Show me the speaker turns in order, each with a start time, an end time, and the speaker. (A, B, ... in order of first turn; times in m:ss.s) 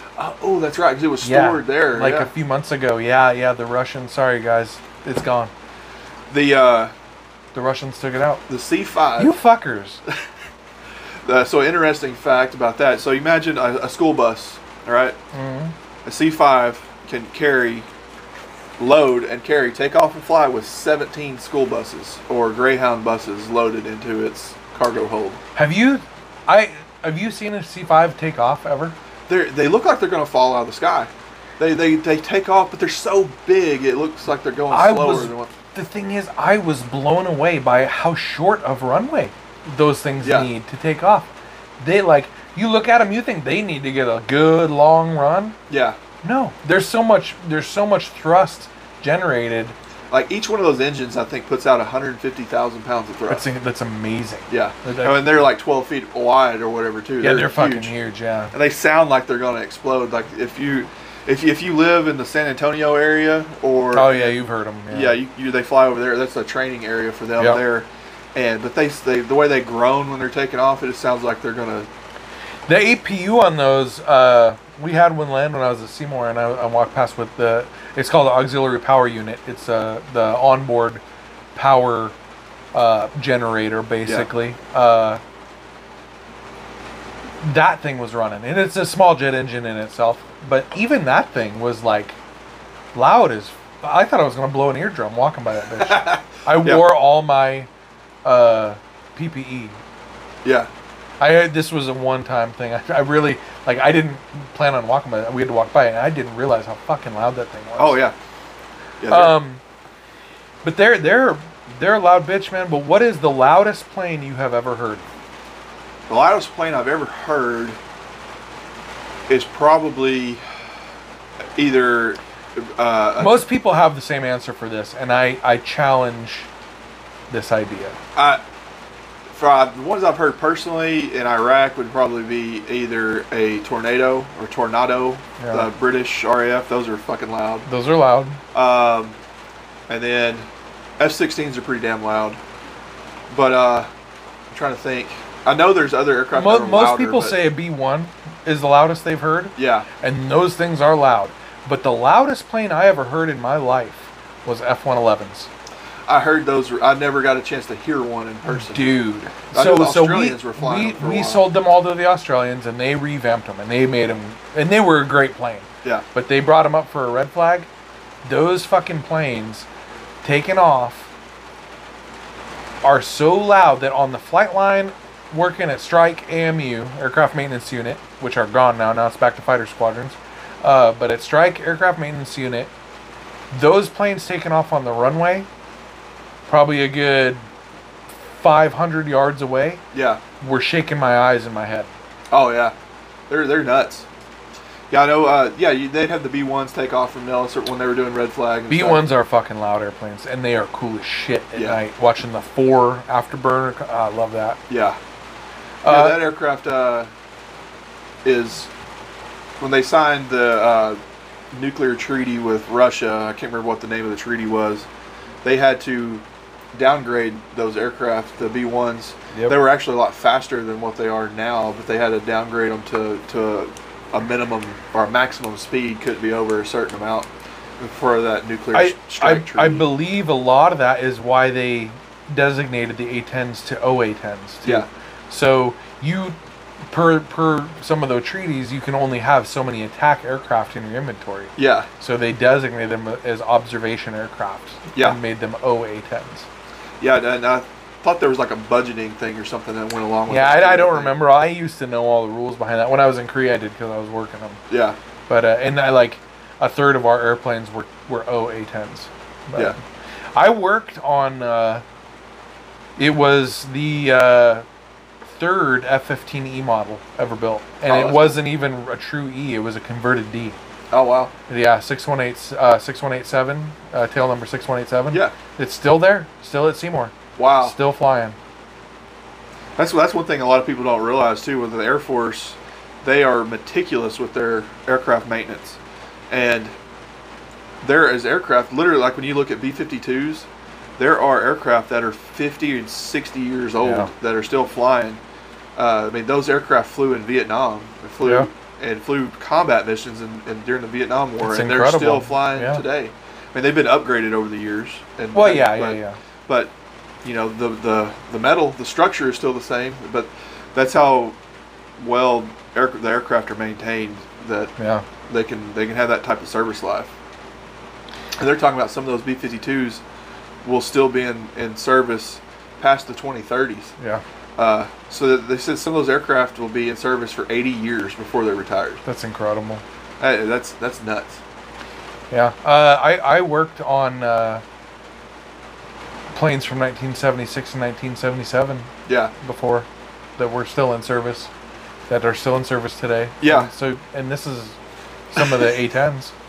0:00.2-0:02.3 A
0:01.2-0:05.5 B
0:06.3-0:06.9 A
0:07.5-0:08.4 B
0:08.5-0:09.3 A
0:09.2-0:10.0 B
0:11.2-0:15.2 A
0:15.3-0:15.7 B
0:16.0-0:17.9 A
0:18.8-0:25.4 A
0:25.6-0:29.0 B
0:29.3-0:35.5 A
0:34.7-0:45.6 B
0:40.2-0:40.5 A
0:45.7-0:46.0 A
0:46.2-0:49.8 B
0:50.1-0:53.4 A
0:53.3-0:55.4 B
0:54.5-0:57.9 A
0:57.2-0:58.5 B
0:58.5-1:04.4 A
1:03.9-1:05.2 B
1:04.9-1:11.9 A
1:12.7-1:21.0 B
1:21.5-1:22.2 B
1:22.7-1:25.2 B
1:27.4-1:32.2 B
1:32.9-1:37.7 B
1:35.8-1:36.8 A
1:38.2-1:39.8 B
1:40.4-1:40.7 A
1:41.2-1:48.0 B
1:47.8-1:48.1 A
1:49.0-1:49.4 A
1:49.1-1:49.6 B
1:50.6-1:55.1 B
1:56.1-1:57.8 A
1:59.3-2:00.4 A
2:01.6-2:03.4 A
2:03.2-2:06.5 B
2:07.3-2:08.0 B
2:08.2-2:08.4 A
2:09.3-2:17.7 A
2:15.4-2:15.7 B
2:17.7-2:18.4 B
2:18.5-2:19.2 A
2:19.9-2:20.5 A
2:21.0-2:22.4 A
2:23.3-2:23.9 A
2:24.5-2:27.4 A
2:26.3-2:35.5 B
2:29.6-2:29.9 A
2:36.1-2:39.0 A
2:38.5-2:47.7 B
2:39.5-2:41.4 A
2:48.2-2:49.7 B
2:50.2-2:51.1 B
2:52.8-3:02.7 B
3:03.5-3:05.5 B
3:06.5-3:07.4 B
3:08.3-3:09.8 B
3:09.9-3:10.2 A
3:10.4-3:11.9 B
3:12.3-3:12.7 A
3:13.3-3:14.1 A
3:14.9-3:19.0 A
3:18.7-3:24.6 B
3:21.5-3:21.8 A
3:24.7-3:25.0 A
3:25.8-3:26.2 B
3:25.8-3:27.1 A
3:28.2-3:28.7 A
3:29.6-3:31.0 A
3:31.5-3:34.9 A
3:35.4-3:49.9 A
3:48.7-3:56.4 B
3:56.9-4:06.5 B
4:01.6-4:01.9 A
4:07.0-4:11.1 A
4:10.3-4:14.6 B
4:14.7-4:15.0 A
4:15.3-4:19.8 B
4:20.3-4:21.8 B
4:23.0-4:24.6 B
4:25.3-4:30.6 B
4:27.9-4:28.4 A
4:30.9-4:31.3 A
4:31.5-4:38.4 B
4:35.1-4:35.4 A
4:37.4-4:37.8 A
4:39.8-4:46.7 A
4:47.8-4:55.2 A
4:53.8-4:54.1 B
4:55.8-5:06.7 A
4:58.2-4:58.5 B
5:01.5-5:02.8 B
5:05.3-5:06.2 B
5:07.2-5:11.4 A
5:12.0-5:14.7 A
5:14.8-5:15.0 B
5:15.3-5:17.1 A
5:18.4-5:20.0 A
5:20.6-5:23.9 A
5:24.6-5:29.0 A
5:29.0-5:29.8 B
5:30.2-5:31.4 A
5:32.3-5:34.6 B
5:36.3-5:39.9 B
5:39.1-5:39.3 A
5:40.4-5:41.5 B
5:42.1-5:44.8 B
5:43.4-5:43.7 A
5:45.3-5:46.3 B
5:45.4-5:45.7 A